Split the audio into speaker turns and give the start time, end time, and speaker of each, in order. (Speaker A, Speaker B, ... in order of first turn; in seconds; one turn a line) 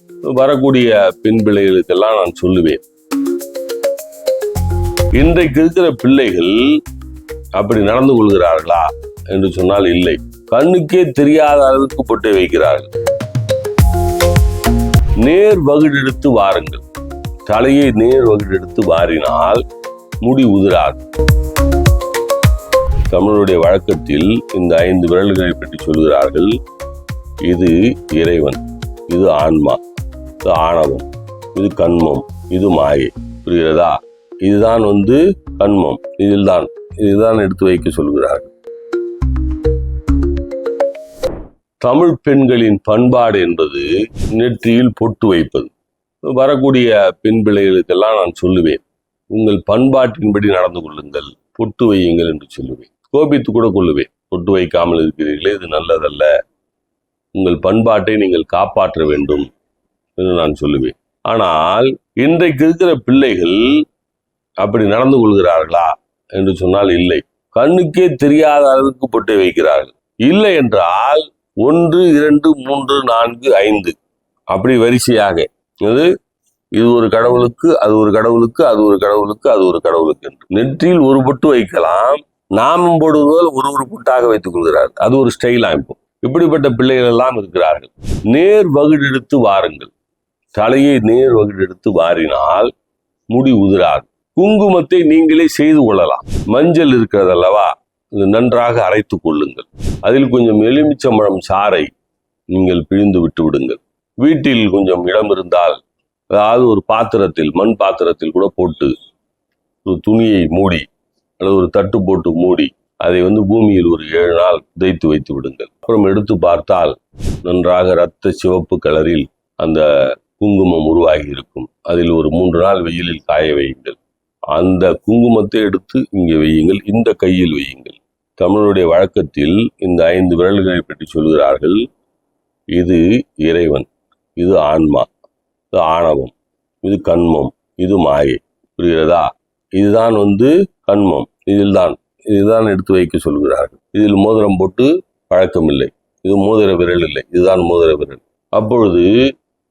Speaker A: 0.3-2.8
Speaker A: 5.2-6.6
Speaker A: 7.6-12.9
Speaker A: 15.2-16.8
Speaker A: 17.5-19.6
Speaker A: 20.2-21.0
Speaker A: 23.1-26.6
Speaker A: 27.5-29.8
Speaker A: 30.4-38.5
Speaker A: 41.8-45.7
Speaker A: 46.3-48.8
Speaker A: 49.3-56.3
Speaker A: 57.4-59.5
Speaker A: 60.2-63.6
Speaker A: 64.6-74.0
Speaker A: 74.5-76.1
Speaker A: 76.8-89.9
Speaker A: 90.6-92.7
Speaker A: 93.3-101.9
Speaker A: 102.5-105.8
Speaker A: 106.3-108.9
Speaker A: 109.9-110.9
Speaker A: 111.4-124.0
Speaker A: 124.5-131.8
Speaker A: 132.7-133.9
Speaker A: 134.4-135.1
Speaker A: 135.7-149.1